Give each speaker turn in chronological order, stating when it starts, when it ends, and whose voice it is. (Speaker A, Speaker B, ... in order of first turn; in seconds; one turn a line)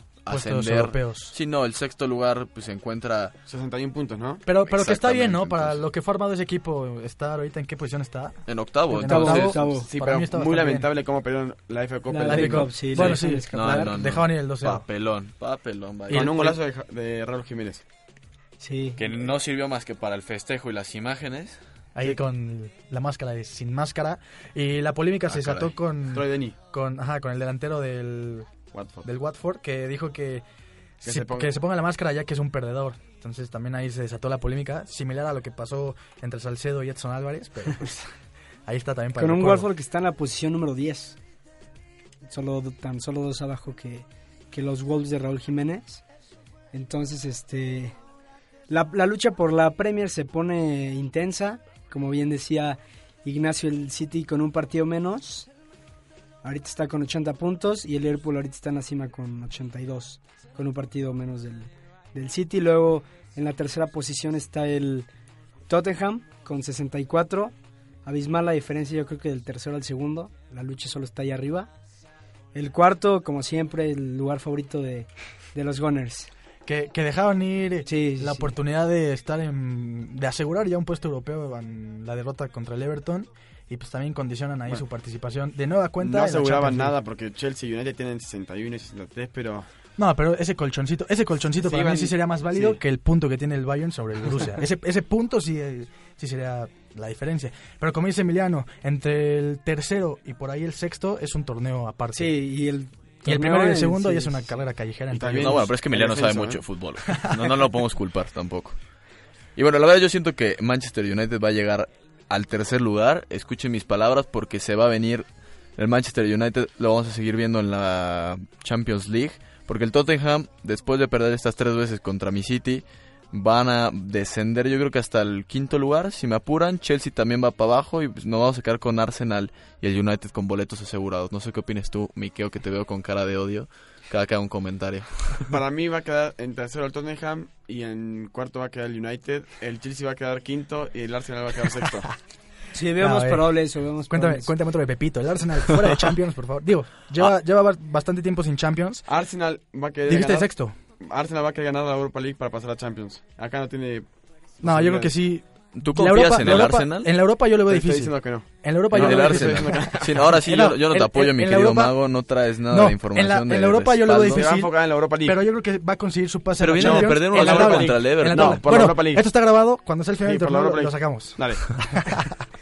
Speaker A: 0.2-3.4
Speaker B: 0.3-1.4
Speaker C: 3.5-4.4
Speaker B: 4.5-10.9
Speaker A: 4.7-5.8
Speaker A: 8.5-9.6
Speaker D: 9.0-9.9
Speaker C: 9.7-12.8
Speaker D: 12.1-14.0
Speaker B: 12.2-14.8
Speaker A: 12.9-16.6
Speaker C: 16.1-17.8
Speaker B: 16.1-16.5
Speaker D: 18.6-19.0
Speaker A: 19.0-21.6
Speaker B: 21.9-28.5
Speaker A: 25.3-25.7
Speaker C: 26.1-26.6
Speaker C: 28.7-29.1
Speaker B: 29.1-30.4
Speaker B: 31.0-38.1
Speaker C: 31.1-31.5
Speaker B: 38.7-39.7
Speaker D: 39.2-41.2
Speaker D: 42.3-46.0
Speaker D: 46.7-48.0
Speaker D: 48.7-55.5
Speaker D: 56.4-65.1
Speaker D: 65.7-67.5
Speaker D: 68.0-71.7
Speaker D: 72.5-76.3
Speaker B: 76.7-87.0
Speaker D: 77.8-78.5
Speaker C: 86.0-89.7
Speaker B: 90.0-102.3
Speaker C: 91.6-92.8
Speaker D: 102.2-104.5
Speaker B: 103.2-105.7
Speaker C: 105.1-106.6
Speaker A: 105.4-108.8
Speaker B: 107.1-107.4
Speaker A: 109.6-115.3
Speaker A: 115.8-135.5
Speaker C: 135.5-142.1
Speaker D: 142.7-144.5
Speaker B: 143.0-143.5
Speaker B: 144.1-149.1
Speaker C: 149.1-150.5
Speaker B: 150.1-150.8
Speaker C: 151.0-154.1
Speaker C: 154.6-155.1
Speaker B: 154.6-162.0
Speaker A: 155.8-157.1
Speaker C: 156.4-156.7
Speaker C: 157.7-160.4
Speaker A: 158.9-164.4
Speaker B: 162.7-172.3
Speaker C: 164.1-165.4
Speaker A: 166.6-168.6
Speaker C: 166.8-169.2
Speaker C: 170.2-171.8